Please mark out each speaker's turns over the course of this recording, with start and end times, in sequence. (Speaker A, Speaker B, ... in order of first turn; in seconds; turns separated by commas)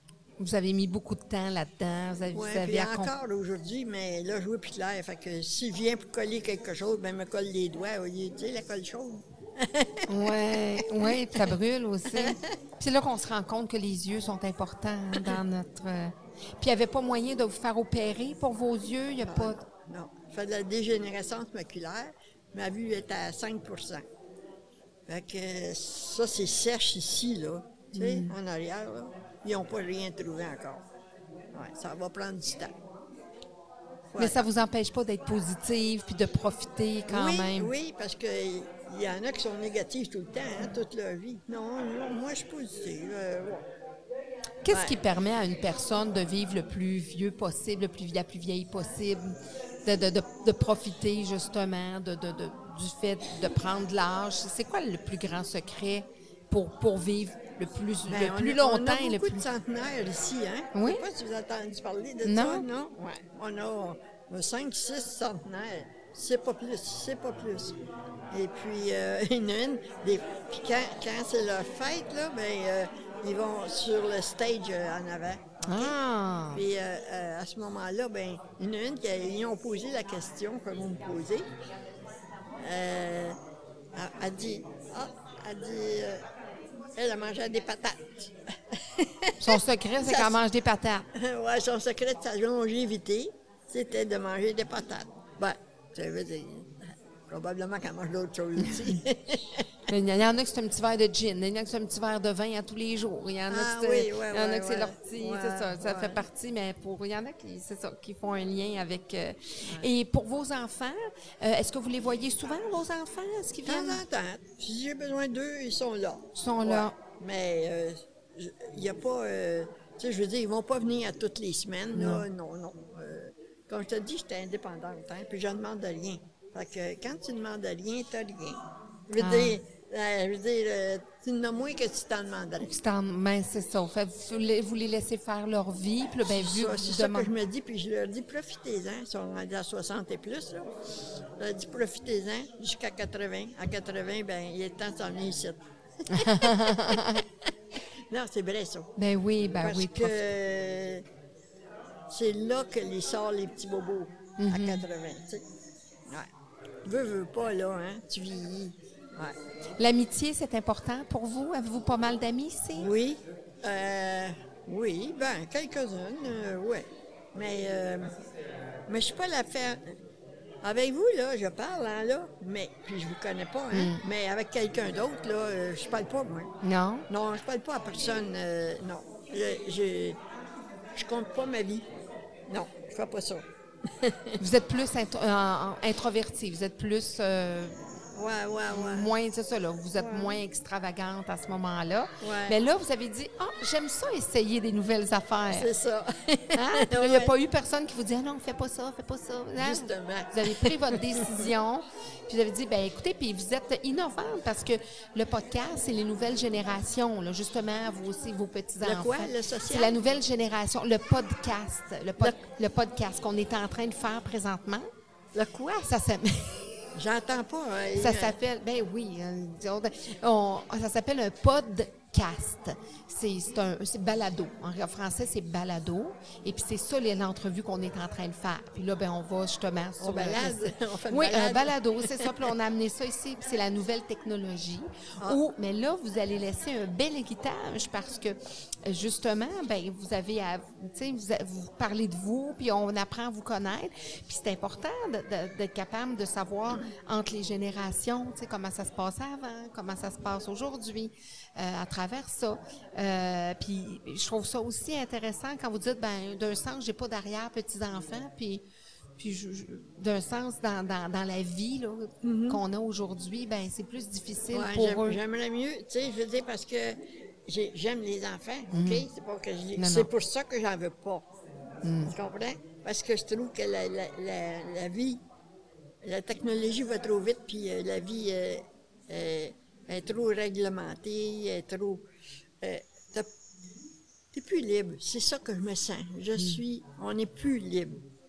Speaker A: 0.4-3.1, Speaker B: 2.3-11.5, Speaker A: 10.1-19.6, Speaker B: 12.1-12.5, Speaker B: 19.2-24.1, Speaker B: 25.1-30.8, Speaker A: 27.9-28.4, Speaker B: 31.5-32.8, Speaker B: 34.1-34.5, Speaker A: 34.2-37.7, Speaker B: 37.1-43.6, Speaker A: 44.6-59.4, Speaker B: 44.7-45.0, Speaker B: 58.1-67.8, Speaker A: 60.7-61.0, Speaker A: 62.2-62.7, Speaker B: 68.3-76.0, Speaker A: 75.6-76.6, Speaker B: 76.5-81.5, Speaker B: 82.6-83.4, Speaker B: 83.9-86.2, Speaker B: 87.0-90.4, Speaker A: 89.4-91.1, Speaker B: 91.1-99.7, Speaker A: 99.9-114.0, Speaker B: 103.5-106.2, Speaker B: 113.6-132.7, Speaker A: 116.3-116.9, Speaker A: 121.9-122.2, Speaker A: 129.2-129.6, Speaker A: 132.6-137.3, Speaker B: 136.2-140.7, Speaker B: 141.4-147.5, Speaker A: 146.1-147.2, Speaker B: 148.1-148.9, Speaker A: 149.0-150.2, Speaker B: 149.6-151.1, Speaker B: 152.1-155.4, Speaker A: 154.4-154.8, Speaker B: 156.8-159.3, Speaker A: 159.8-162.9, Speaker B: 162.8-168.1, Speaker B: 168.9-169.9, Speaker B: 170.6-176.5, Speaker A: 173.7-174.0, Speaker A: 176.6-177.1, Speaker B: 177.1-180.2, Speaker B: 180.9-181.9, Speaker B: 182.5-184.4, Speaker A: 184.4-187.8, Speaker B: 188.1-189.1, Speaker A: 188.7-195.7, Speaker B: 189.9-190.4, Speaker B: 192.2-192.6, Speaker B: 195.5-197.3, Speaker A: 196.5-214.9, Speaker B: 199.6-201.5, Speaker B: 208.8-210.0, Speaker B: 215.3-215.9, Speaker A: 215.8-216.8, Speaker B: 216.9-218.4, Speaker A: 217.9-258.6, Speaker B: 230.0-232.3, Speaker A: 259.2-265.2, Speaker B: 262.2-262.6, Speaker B: 264.5-271.3, Speaker A: 268.7-269.1, Speaker A: 269.8-270.1, Speaker A: 271.8-272.1, Speaker B: 272.0-275.2, Speaker B: 276.0-282.1, Speaker B: 282.6-283.3, Speaker B: 284.3-288.0